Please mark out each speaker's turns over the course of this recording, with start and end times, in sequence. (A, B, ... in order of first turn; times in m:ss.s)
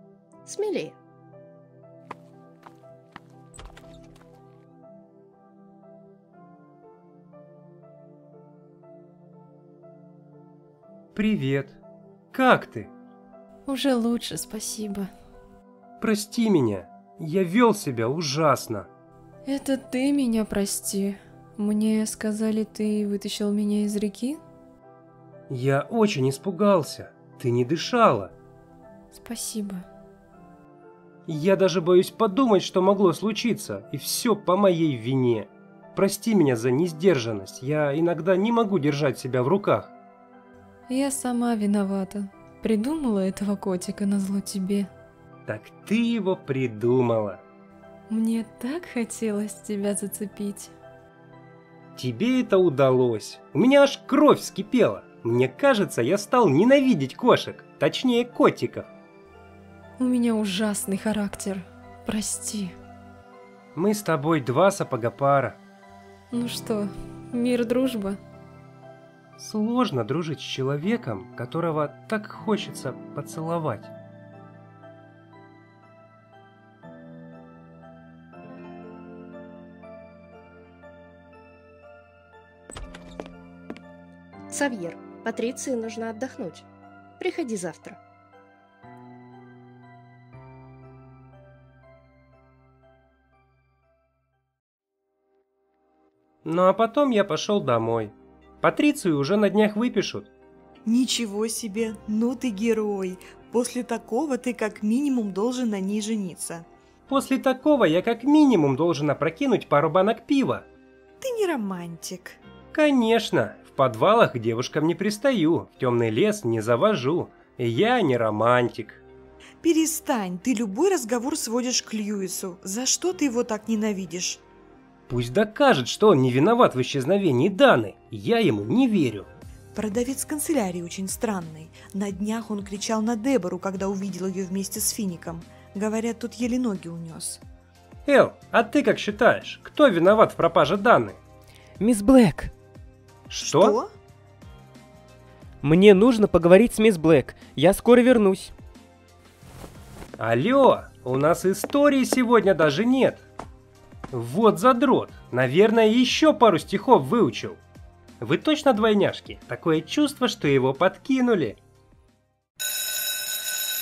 0:00.5-0:01.0 A
0:11.2-0:11.8 B
0:12.3-0:12.9 B
0:13.7-0:15.1 C
0:16.0-0:18.9 B
0:19.5-0:24.4 C
0:25.5-0:28.3 B
0:29.1-0:29.8 C
0:31.3-0:39.9 B
0:40.9-0:44.9 C
0:45.5-0:47.4 B
0:48.1-0:50.7 C
0:52.0-0:58.9 B
1:00.0-1:02.7 C
1:03.8-1:05.6 B
1:06.3-1:08.2 C
1:09.4-1:13.9 B
1:24.5-1:26.7 A
1:27.2-1:28.0 A
1:36.4-1:40.3 B
1:40.9-1:46.7 D
1:47.1-1:50.7 B
1:51.2-1:52.4 D
1:52.7-1:59.0 B
1:59.6-2:04.4 D
2:05.1-2:09.3 B
2:09.8-2:17.4 D
2:18.1-2:21.2 B
2:21.8-2:22.5 E
2:23.3-2:23.8 B
2:23.4-2:23.9 D
2:25.6-2:28.5 E
2:30.2-2:33.2 B
2:34.1-2:37.6 B
2:38.2-2:41.6 B